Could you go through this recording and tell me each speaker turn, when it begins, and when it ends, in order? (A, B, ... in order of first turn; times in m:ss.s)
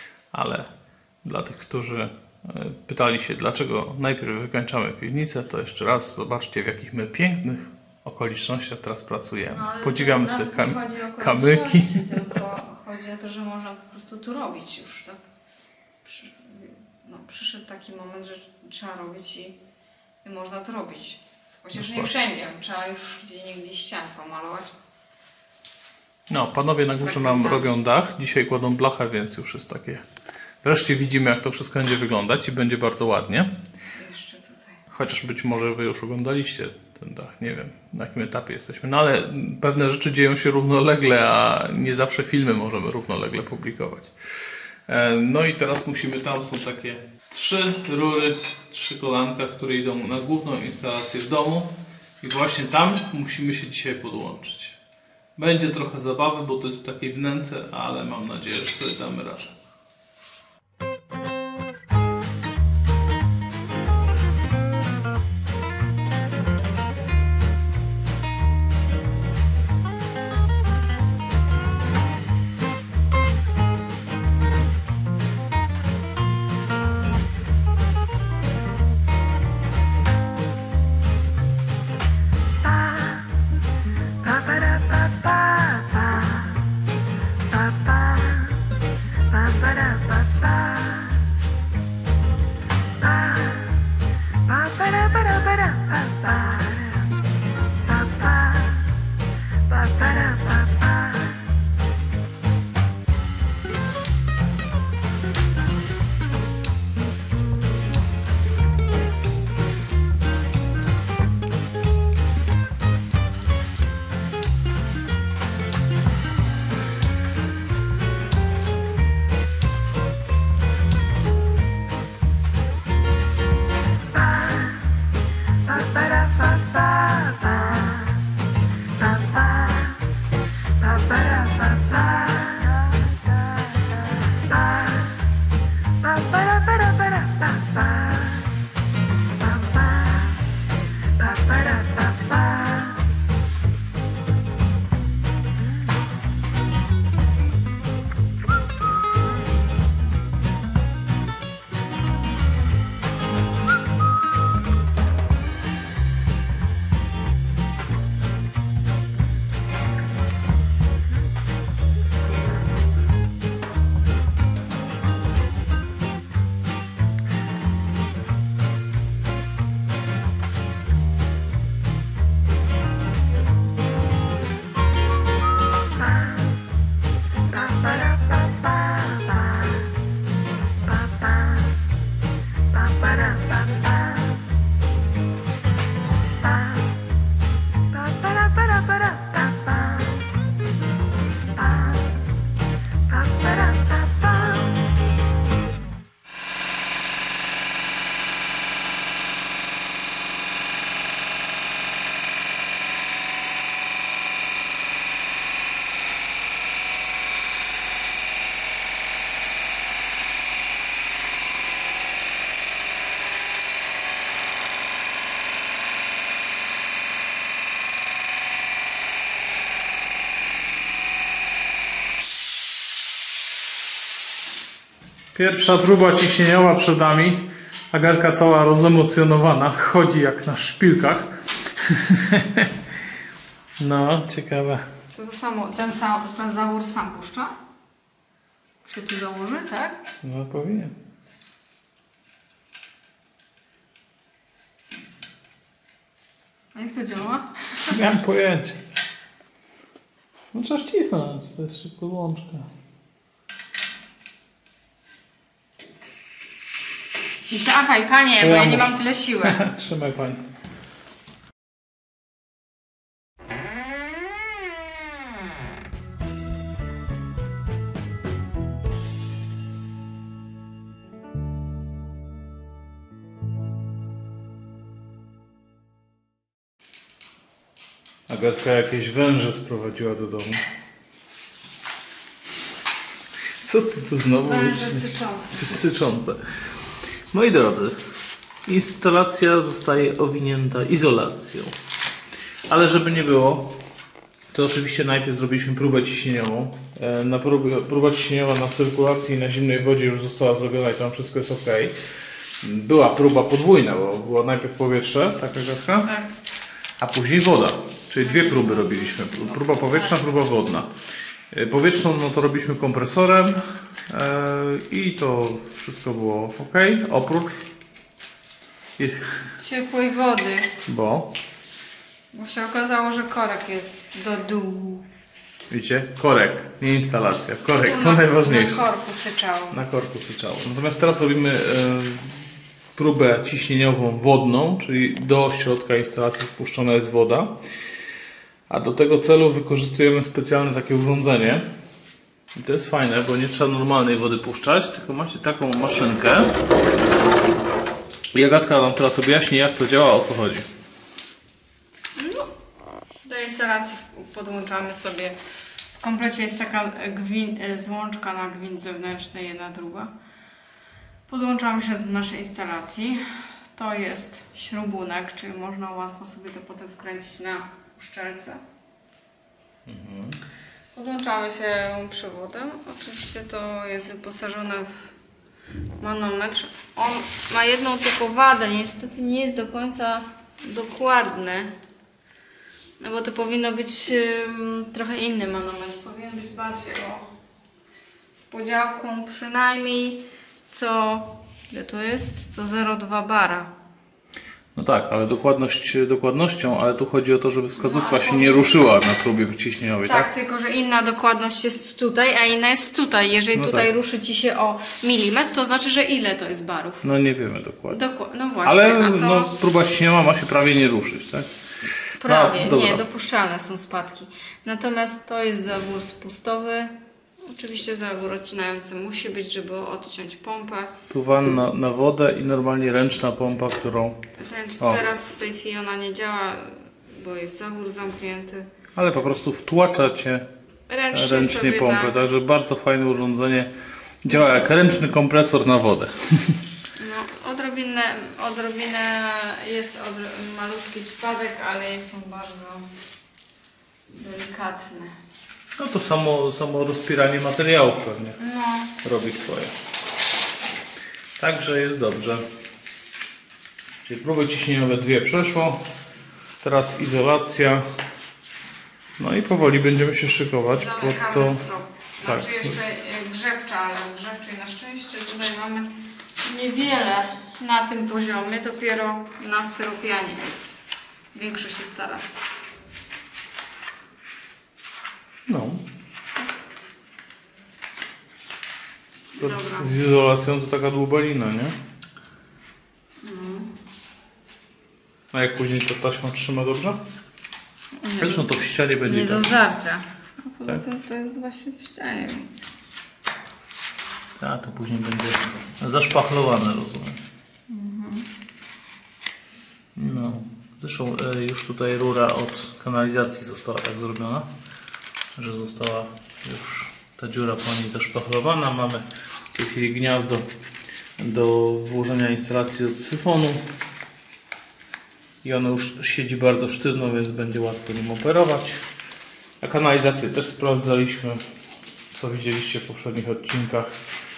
0:00.3-0:00.7 A
0:01.2-0:12.4 A
0:09.5-0:15.2 B
0:16.0-0:19.6 B
0:20.2-0:24.7 B
0:21.7-0:22.1 A
0:26.3-0:30.0 A
0:27.0-0:27.7 B
0:30.6-0:33.5 A
0:34.0-0:34.8 B
0:34.9-0:44.1 A
0:44.9-0:54.8 A
0:55.4-0:59.5 A
1:34.9-1:36.0 B
3:45.3-3:52.8 A
3:53.8-3:54.8 A
3:55.1-3:57.5 B
3:58.8-4:00.0 B
4:00.2-4:00.9 A
4:06.7-4:08.0 B
4:07.9-4:08.8 A
4:10.5-4:12.7 A
4:17.5-4:19.6 B
4:18.4-4:20.4 A
4:38.3-4:40.6 A
4:43.6-4:46.4 A
4:44.4-4:45.6 B
4:47.3-4:48.0 A
4:48.6-4:51.8 A
4:52.7-4:53.8 A
4:54.5-5:02.0 A
5:02.6-5:06.1 A
5:06.0-5:06.3 B
5:07.0-5:10.9 A
5:08.2-5:10.2 B
5:11.5-5:17.7 A
5:19.0-5:19.5 A
5:19.6-5:20.8 B
5:20.8-5:21.3 A
5:22.3-5:25.1 B
5:25.7-5:28.8 A
5:27.8-5:29.8 B
5:29.7-5:37.6 A
5:38.7-5:41.6 A
5:42.5-5:46.5 A
5:48.3-5:50.7 A
5:52.2-5:52.5 B
5:53.2-5:55.4 B
5:56.0-6:00.1 B
6:01.3-6:08.6 B
6:09.8-6:10.4 A
6:10.9-6:15.1 B
6:16.0-6:21.7 B
6:23.0-6:27.3 B
6:28.4-6:33.7 B
6:34.7-6:40.3 A
6:37.8-6:38.8 B
6:40.0-6:47.0 B
6:43.5-6:43.9 A
6:47.0-6:48.0 A
6:47.9-6:49.5 B
6:48.6-6:51.5 A
6:52.2-7:00.9 B
6:52.2-6:53.0 A
7:01.1-7:04.2 A
7:04.4-7:08.7 B
7:04.8-7:05.0 A
7:08.9-7:10.5 A
7:10.9-7:12.2 B
7:11.1-7:13.7 A
7:14.2-7:16.6 A
7:17.0-7:22.9 B
7:24.1-7:25.2 B
7:25.8-7:28.4 A
7:28.4-7:29.0 B
7:29.0-7:29.8 A
7:31.4-7:32.4 A
7:34.0-7:35.8 A
7:36.6-7:37.8 A
7:39.2-7:41.6 A
7:40.7-7:50.8 B
7:42.2-7:42.8 A
7:51.3-7:52.4 B
7:55.5-7:55.8 A
7:59.3-7:59.9 B
7:59.4-8:01.8 A
8:03.2-8:03.7 B
8:05.3-8:07.0 A
8:08.0-8:08.5 B
8:08.2-8:09.5 A
8:09.0-8:12.7 B
8:14.4-8:17.2 A
8:17.7-8:18.3 B
8:19.9-8:24.5 A
8:25.4-8:30.5 A
8:31.2-8:33.7 A
8:35.4-8:38.8 A
8:39.6-8:41.4 A
8:42.1-8:43.9 A